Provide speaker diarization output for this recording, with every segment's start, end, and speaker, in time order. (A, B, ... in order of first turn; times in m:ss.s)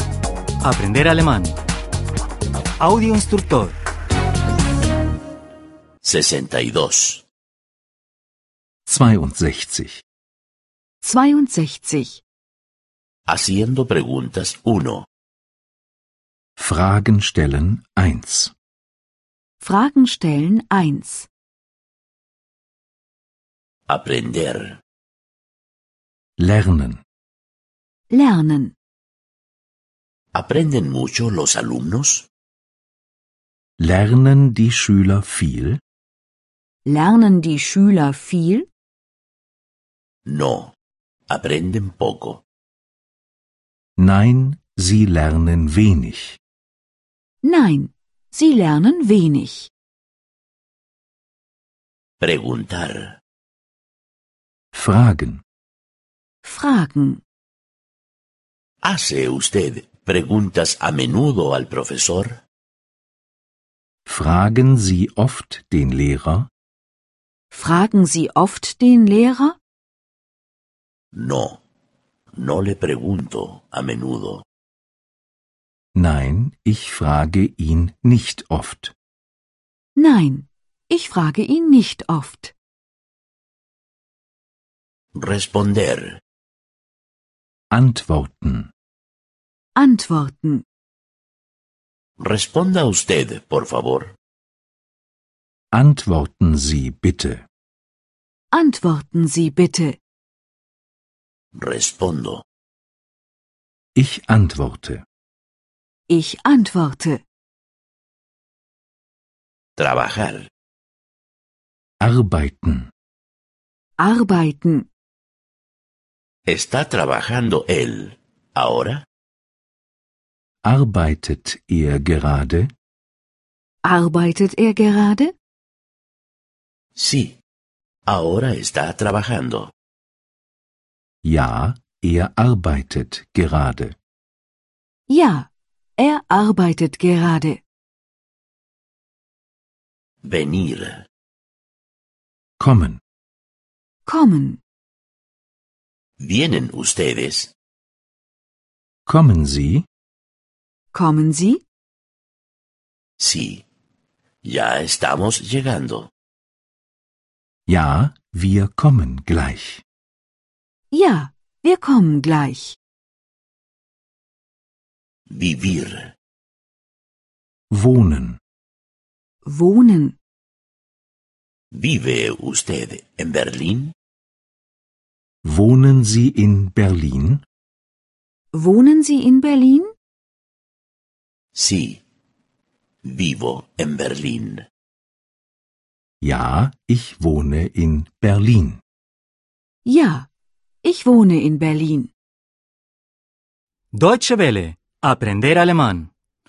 0:00.6-0:01.6 A
0:02.8-0:03.7 A
0:06.0-0:07.2 B
0:08.8-0:10.0 C
0:11.0-0:12.2 D
0:13.3-0:15.0 B
0:16.6-0:18.5 C
0:19.6-0:21.3 D
0:23.9-0:24.8 B
0:26.4-0:27.0 C
0:28.1-0:28.7 D
0:30.3-0:32.3 B
0:33.8-0:35.8 C
0:36.8-0:38.7 D
0:40.3-0:40.7 B
0:41.3-0:42.4 B
0:44.0-0:46.4 C
0:47.4-0:49.7 D
0:52.2-0:53.2 B
0:54.7-0:55.4 C
0:56.4-0:57.2 D
0:58.8-1:02.4 B
1:04.0-1:06.5 C
1:07.5-1:09.6 D
1:11.1-1:11.6 B
1:12.4-1:14.4 B
1:16.0-1:18.9 C
1:20.0-1:22.5 D
1:25.2-1:26.2 B
1:27.7-1:28.7 C
1:29.8-1:30.6 D
1:32.2-1:34.1 B
1:35.7-1:37.4 C
1:38.5-1:40.0 D
1:41.6-1:42.4 B
1:44.0-1:45.0 C
1:46.1-1:47.2 D
1:49.8-1:50.5 B
1:52.0-1:52.9 C
1:54.0-1:54.9 D
1:56.5-1:59.0 B
2:00.6-2:02.7 C
2:03.8-2:05.3 D
2:07.0-2:07.4 B
2:08.1-2:09.7 B
2:11.2-2:14.0 C
2:15.1-2:17.6 D
2:20.2-2:21.0 B
2:22.6-2:23.0 C
2:24.0-2:24.6 D
2:26.2-2:27.5 B
2:29.1-2:29.8 C
2:30.9-2:31.6 D
2:33.2-2:33.6 B
2:34.4-2:36.1 B
2:37.7-2:39.8 C
2:40.9-2:42.8 D
2:45.3-2:46.1 B
2:47.7-2:48.4 C
2:49.4-2:50.2 D
2:51.7-2:53.9 B
2:55.4-2:57.4 C
2:58.5-2:59.9 D
3:01.5-3:02.0 B
3:03.0-3:04.6 B
3:06.2-3:08.8 C
3:09.8-3:10.3 D
3:10.8-3:12.1 D
3:13.9-3:16.1 A